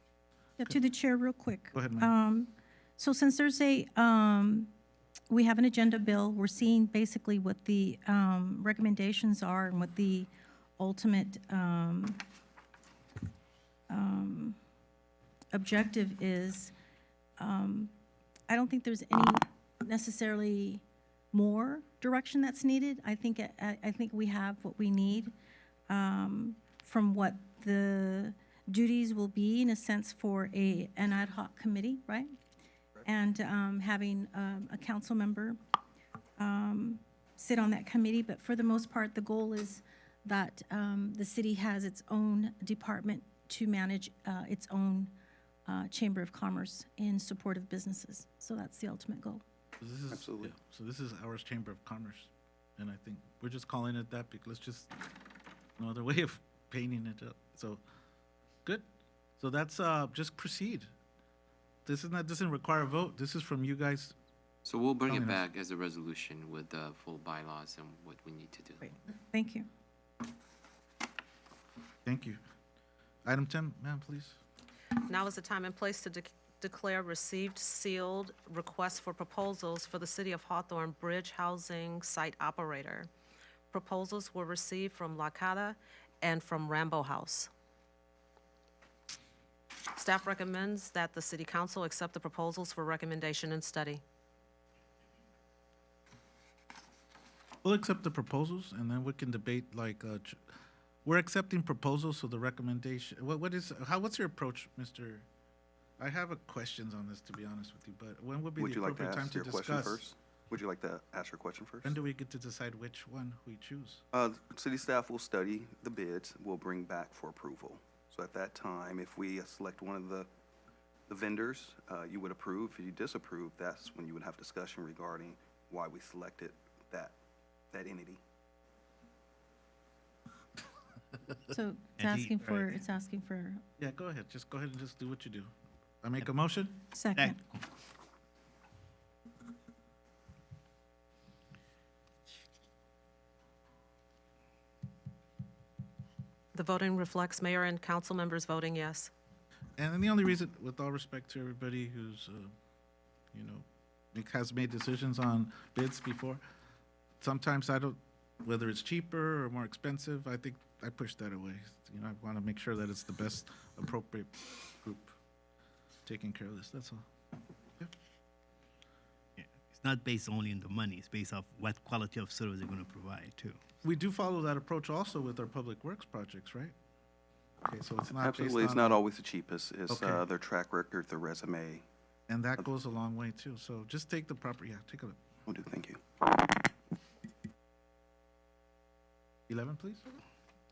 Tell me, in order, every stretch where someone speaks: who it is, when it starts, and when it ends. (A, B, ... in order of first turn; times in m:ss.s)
0:00.6-0:04.7 A
0:01.7-0:02.1 B
0:05.3-0:12.2 A
0:13.9-0:14.6 A
0:15.5-0:16.7 A
0:17.4-0:17.9 A
0:18.5-0:25.3 A
0:25.9-0:32.3 A
0:33.1-0:35.6 A
0:36.4-0:45.1 A
0:45.7-0:49.4 A
0:49.8-0:54.9 B
0:50.1-0:50.5 C
0:55.8-0:57.8 B
0:59.4-1:00.9 B
1:01.9-1:04.1 B
1:04.6-1:08.8 D
1:05.1-1:05.4 B
1:09.3-1:09.7 A
1:12.0-1:12.4 B
1:13.2-1:14.4 B
1:15.1-1:23.1 E
1:23.7-1:27.5 E
1:29.9-1:34.0 E
1:37.6-1:40.4 B
1:41.0-1:45.2 B
1:46.0-1:50.0 B
1:48.6-1:51.9 C
1:51.8-1:54.0 B
1:54.1-2:00.3 C
2:01.1-2:07.1 C
2:07.7-2:08.2 C
2:11.6-2:13.6 A
2:12.0-2:12.8 F
2:13.8-2:15.5 B
2:16.0-2:16.8 B
2:16.9-2:17.3 A
2:17.1-2:17.4 F
2:26.6-2:29.1 E
2:29.8-2:32.5 B
2:33.3-2:36.4 B
2:37.2-2:45.2 B
2:46.1-2:47.1 B
2:49.4-2:53.6 F
2:53.8-2:56.8 B
2:57.6-2:59.0 B
2:58.2-3:01.8 C
2:59.9-3:00.2 B
3:02.3-3:05.2 B
3:05.5-3:06.0 C
3:09.5-3:10.1 B